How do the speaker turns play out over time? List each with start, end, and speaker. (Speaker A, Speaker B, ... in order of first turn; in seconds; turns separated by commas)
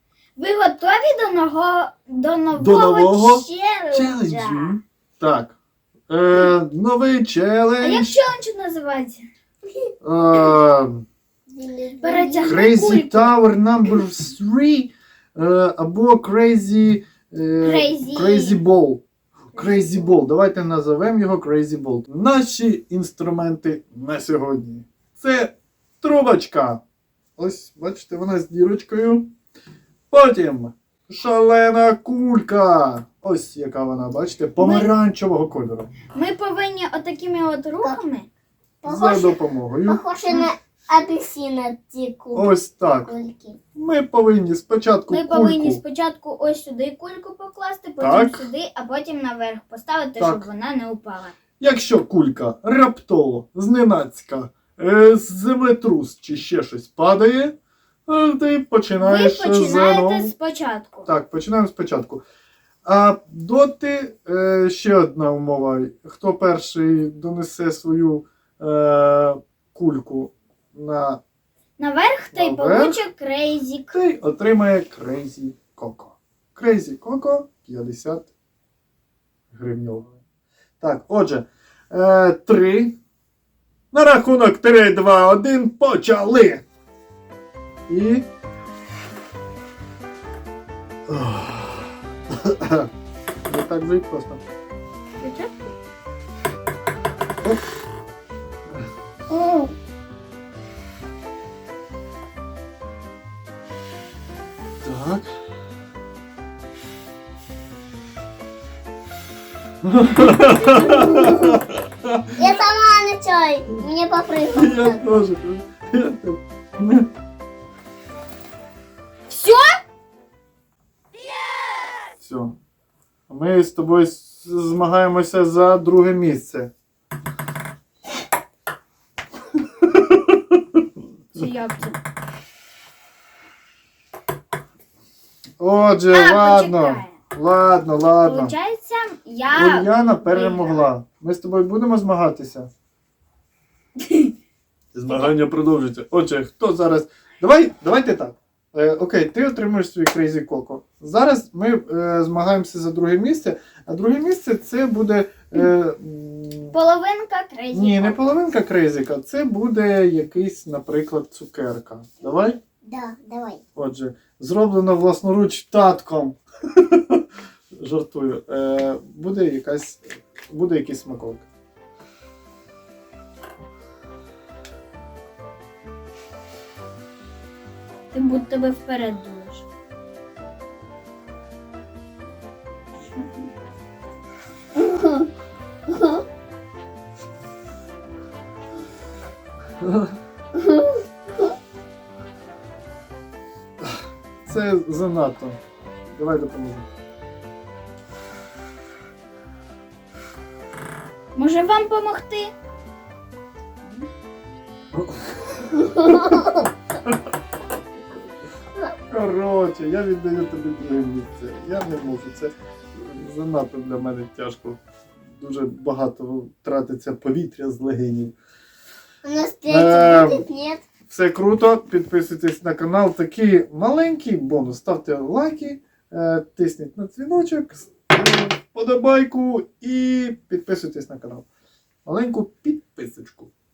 Speaker A: 0.4-4.8, Speaker B: 2.5-5.5, Speaker B: 6.1-8.2, Speaker A: 7.8-9.2, Speaker B: 10.0-11.0, Speaker C: 11.5-12.6, Speaker A: 12.0-13.4, Speaker B: 12.4-19.0, Speaker A: 17.6-18.6, Speaker B: 19.5-26.8, Speaker B: 27.4-29.3, Speaker B: 30.1-35.9, Speaker A: 34.6-34.9, Speaker A: 36.1-38.3, Speaker C: 38.8-42.5, Speaker B: 38.8-40.5, Speaker B: 42.3-43.1, Speaker C: 43.0-43.6, Speaker B: 43.7-45.8, Speaker A: 45.1-51.3, Speaker B: 48.0-48.5, Speaker B: 50.2-50.4, Speaker B: 51.6-57.5, Speaker B: 58.1-60.3, Speaker A: 59.0-61.1, Speaker B: 61.0-62.2, Speaker B: 62.8-71.2, Speaker A: 71.8-74.0, Speaker B: 72.3-73.0, Speaker B: 73.9-78.3, Speaker B: 79.5-80.1, Speaker B: 80.8-83.0, Speaker B: 83.9-86.6, Speaker B: 87.9-88.2, Speaker B: 91.1-92.9, Speaker B: 93.5-94.4, Speaker A: 95.2-95.5, Speaker B: 104.8-105.3, Speaker B: 109.8-112.2, Speaker C: 110.9-111.5, Speaker C: 112.4-115.0, Speaker B: 114.5-117.1, Speaker A: 119.3-119.8, Speaker B: 122.2-122.5, Speaker B: 123.3-126.7, Speaker B: 129.8-130.6, Speaker A: 131.3-132.0, Speaker B: 135.6-138.5, Speaker A: 136.1-137.1, Speaker A: 138.2-140.9, Speaker B: 139.5-142.7, Speaker A: 144.0-144.3, Speaker B: 144.9-156.7, Speaker A: 145.1-145.3, Speaker A: 156.7-158.3, Speaker B: 157.7-162.6, Speaker C: 162.8-163.6, Speaker B: 163.8-167.2, Speaker B: 167.8-171.4, Speaker A: 178.1-179.6, Speaker B: 189.8-190.1, Speaker B: 193.8-195.6, Speaker B: 196.1-196.8, Speaker A: 201.3-202.5, Speaker B: 204.9-206.5, Speaker B: 209.1-214.8, Speaker B: 215.3-218.3, Speaker C: 219.2-220.8, Speaker B: 219.7-220.4, Speaker B: 221.1-231.4, Speaker B: 232.1-233.5